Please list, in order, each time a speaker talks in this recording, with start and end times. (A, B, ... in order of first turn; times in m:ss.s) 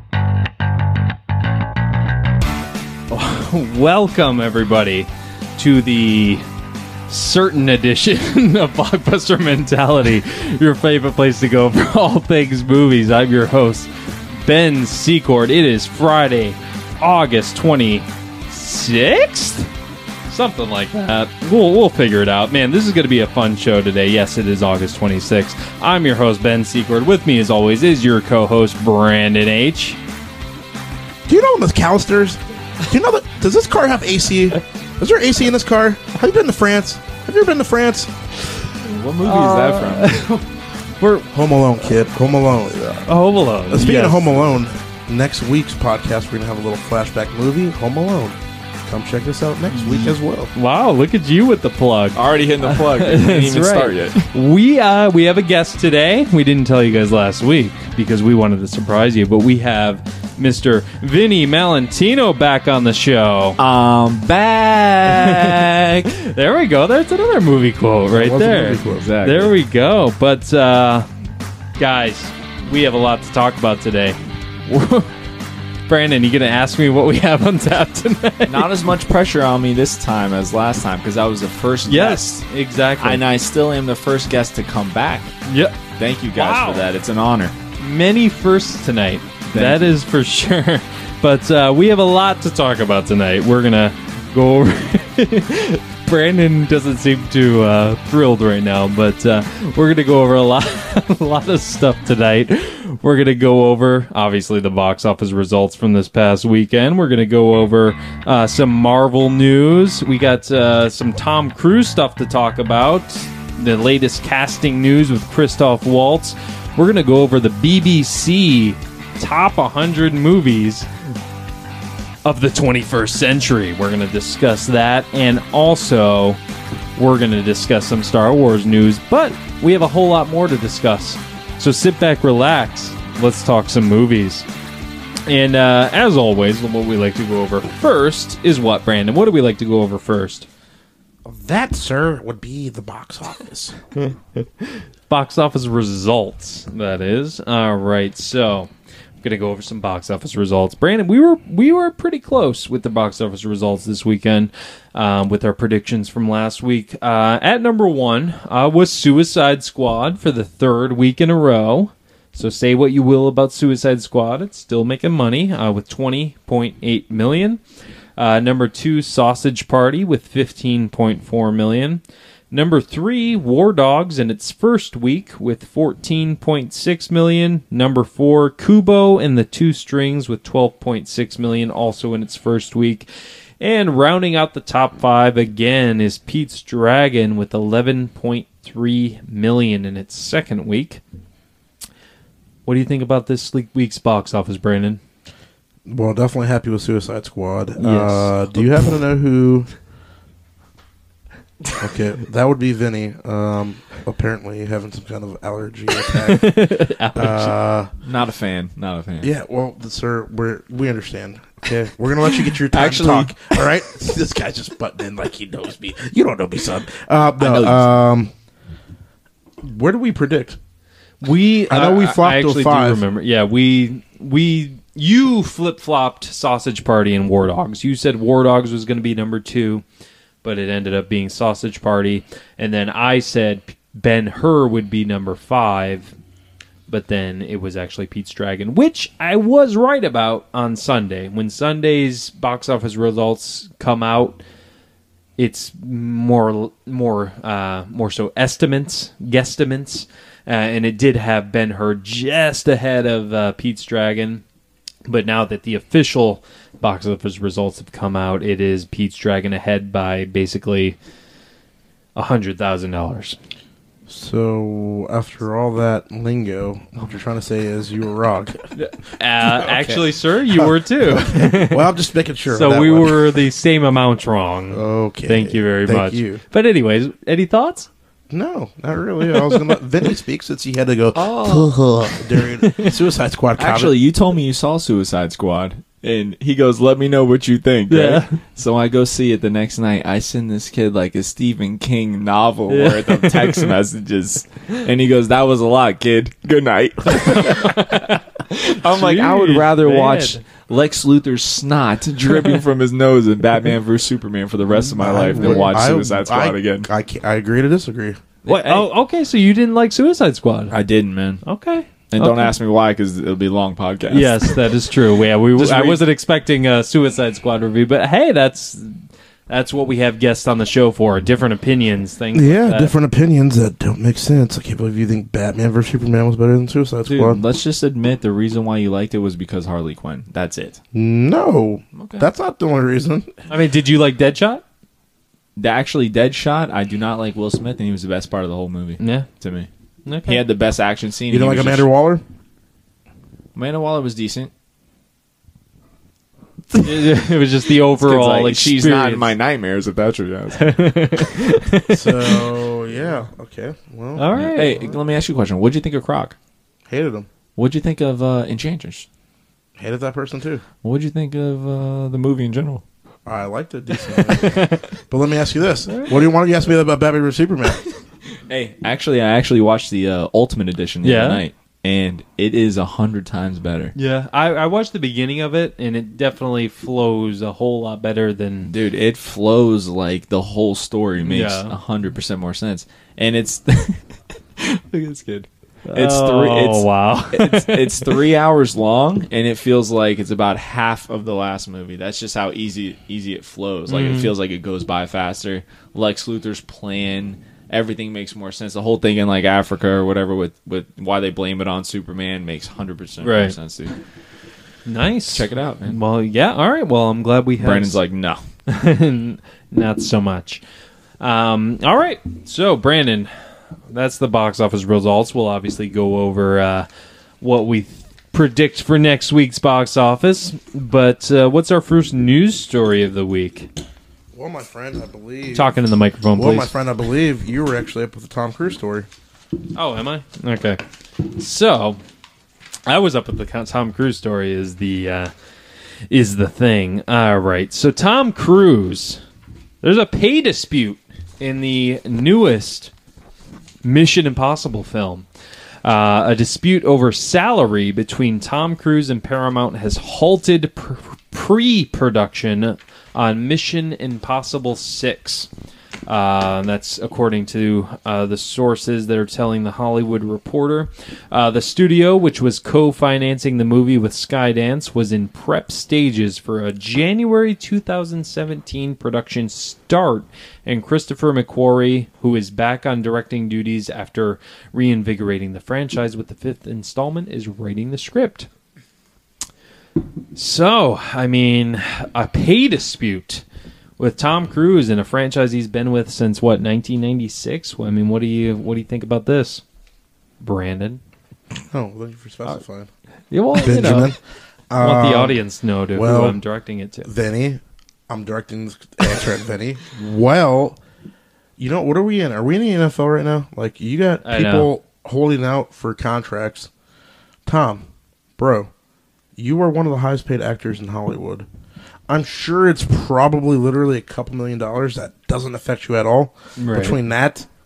0:03.1-0:06.4 A
0:07.1-0:19.7 A
0:20.3-0:30.0 A
0:31.2-0:38.1 B
0:38.8-0:40.2 C
0:39.2-0:40.5 A
0:41.0-0:41.3 A
0:41.3-0:42.8 B
0:42.7-0:44.4 A
0:43.7-0:50.5 B
0:49.7-1:03.6 A
0:52.1-0:54.3 C
1:03.6-1:05.7 C
1:05.1-1:11.1 A
1:08.1-1:09.1 B
1:08.8-1:09.5 C
1:11.8-1:15.1 A
1:15.9-1:18.7 A
1:18.5-1:22.3 C
1:21.8-1:23.2 A
1:23.0-1:25.3 C
1:25.4-1:25.8 A
1:26.0-1:27.6 C
1:26.3-1:26.9 A
1:27.8-2:00.9 A
1:29.5-1:29.9 C
2:02.2-2:06.4 A
2:07.0-2:14.4 A
2:15.2-2:20.5 A
2:21.2-2:23.8 B
2:25.1-2:28.7 A
2:29.2-2:47.6 A
2:48.2-3:03.1 A
3:03.6-3:11.0 A
3:12.6-3:15.0 A
3:15.8-3:19.7 B
3:17.8-3:18.4 A
3:21.8-3:27.9 B
3:26.1-3:27.5 A
3:28.0-3:29.3 C
3:29.2-3:38.3 B
3:32.6-3:33.6 C
3:37.4-3:38.0 C
3:39.6-3:40.6 B
3:41.2-3:49.8 A
3:41.7-3:43.0 B
3:50.4-3:56.1 A
3:56.9-4:04.4 A
4:05.4-4:14.4 A
4:15.0-4:21.0 A
4:22.2-4:23.4 A
4:24.1-4:28.7 B
4:28.7-4:31.9 A
4:29.4-4:33.4 B
4:32.5-4:37.9 A
4:34.7-4:36.4 B
4:38.3-4:43.9 B
4:39.3-4:39.6 A
4:41.1-4:41.8 C
4:42.6-4:42.9 A
4:43.6-5:06.9 C
4:47.9-4:48.4 A
4:52.7-4:53.7 A
4:57.1-5:00.4 A
5:05.0-5:08.2 B
5:05.4-5:05.6 A
5:08.4-5:08.9 C
5:08.4-5:10.7 A
5:10.7-5:11.4 C
5:11.4-5:12.5 A
5:12.1-5:14.7 C
5:14.1-5:22.9 A
5:15.5-5:16.0 C
5:22.3-5:27.4 B
5:27.1-5:30.8 C
5:30.9-5:33.3 B
5:32.0-5:32.3 C
5:33.5-5:34.6 A
5:35.6-5:39.7 C
5:39.0-5:39.3 A
5:40.0-5:40.4 A
5:40.2-5:41.9 C
5:41.3-5:42.2 B
5:43.5-5:44.5 C
5:46.7-5:49.3 A
5:48.0-5:50.7 C
5:50.6-5:52.4 A
5:51.9-5:54.3 B
5:54.2-5:54.8 A
5:54.3-5:56.4 C
5:56.9-5:57.3 B
5:57.6-5:59.0 C
5:59.8-6:00.6 B
6:00.8-6:02.8 C
6:03.2-6:07.8 B
6:04.3-6:04.9 A
6:05.9-6:06.2 A
6:08.5-6:13.9 C
6:11.0-6:11.4 A
6:13.9-6:18.7 A
6:18.7-6:24.0 C
6:21.2-6:21.7 A
6:24.6-6:43.9 C
6:25.8-6:28.2 A
6:33.9-6:34.3 A
6:43.2-6:43.5 A
6:44.8-6:48.0 A
6:45.3-6:46.0 C
6:47.6-6:48.4 C
6:48.7-6:50.6 A
6:51.2-6:53.3 A
6:53.9-6:56.9 A
6:57.4-7:03.7 A
7:04.3-7:05.7 B
7:05.5-7:06.7 A
7:06.3-7:09.1 B
7:09.7-7:12.0 A
7:12.8-7:15.3 A
7:16.1-7:19.2 A
7:19.8-7:22.9 A
7:23.8-7:25.2 A
7:25.8-7:35.5 A
7:36.1-7:58.5 A
8:00.3-8:03.4 A
8:04.0-8:09.6 A
8:10.4-8:11.0 A
8:11.7-8:12.9 B
8:13.3-8:14.1 A
8:13.5-8:14.2 B
8:14.7-8:15.4 B
8:14.8-8:17.1 A
8:15.9-8:16.4 B
8:17.0-8:20.8 B
8:21.6-8:26.7 B
8:24.2-8:24.7 A
8:27.4-8:27.8 B
8:28.4-8:28.7 B
8:29.4-8:31.5 B
8:32.1-8:37.4 B
8:36.6-8:37.0 A